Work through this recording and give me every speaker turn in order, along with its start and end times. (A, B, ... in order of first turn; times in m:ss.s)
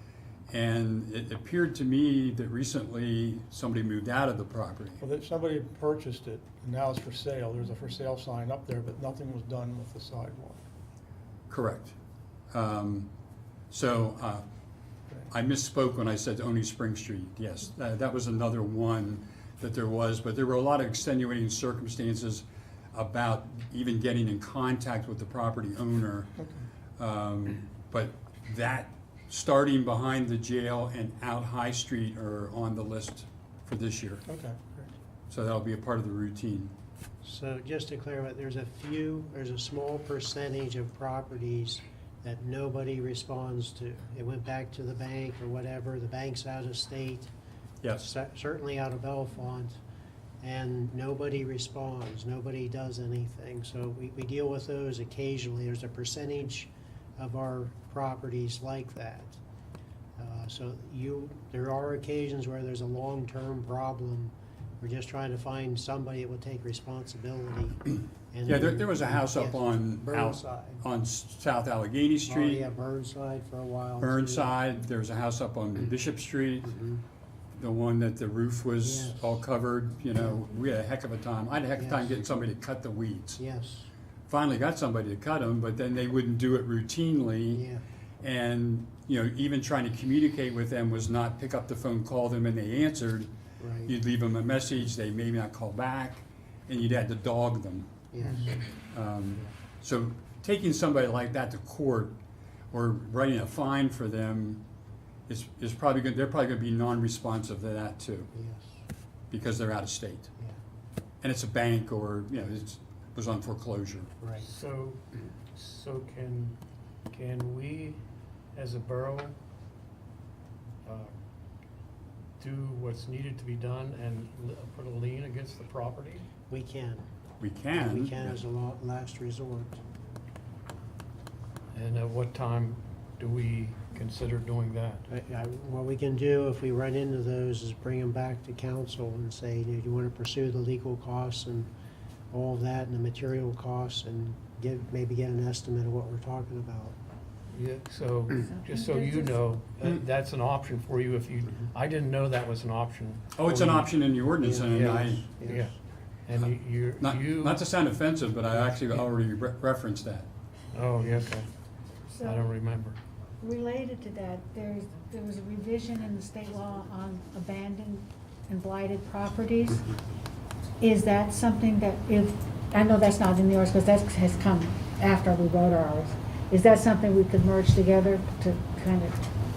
0:00.5-0:05.0 A
0:05.0-0:10.6 B
0:11.5-0:12.0 A
0:12.5-0:13.1 A
0:13.7-0:14.4 A
0:15.3-0:26.3 A
0:26.4-0:26.7 B
0:27.0-0:34.2 A
0:34.2-0:34.8 B
0:35.3-0:36.7 A
0:37.2-0:47.3 C
0:47.8-0:48.1 A
0:48.0-0:49.7 C
0:50.4-0:59.4 C
1:00.2-1:10.8 C
1:08.4-1:12.6 A
1:12.3-1:14.5 C
1:14.0-1:16.7 A
1:16.6-1:17.0 C
1:17.6-1:23.4 A
1:18.8-1:19.3 C
1:21.8-1:22.1 C
1:23.4-1:23.9 C
1:24.3-1:27.6 A
1:27.5-1:27.8 C
1:28.2-1:33.3 A
1:33.6-1:33.9 C
1:33.8-1:38.0 A
1:38.1-1:38.6 C
1:38.9-1:42.2 A
1:42.7-1:44.6 A
1:45.3-1:48.3 A
1:48.3-1:48.8 C
1:49.3-1:50.3 A
1:51.2-1:54.1 A
1:54.2-1:54.5 C
1:54.4-1:56.6 D
1:57.1-1:58.0 D
1:58.5-1:59.4 D
2:00.8-2:01.1 D
2:02.4-2:06.2 D
2:06.5-2:07.0 C
2:07.4-2:08.2 A
2:07.7-2:09.8 C
2:11.7-2:15.0 D
2:15.1-2:21.7 C
2:22.3-2:27.0 C
2:27.5-2:33.9 D
2:28.4-2:29.4 E
2:33.4-2:35.3 A
2:34.4-2:35.7 C
2:34.7-2:35.7 D
2:36.2-2:37.6 D
2:37.0-2:40.3 A
2:40.7-2:41.5 D
2:42.1-2:42.5 E
2:42.2-2:43.0 D
2:43.4-2:49.8 E
2:50.8-2:59.2 E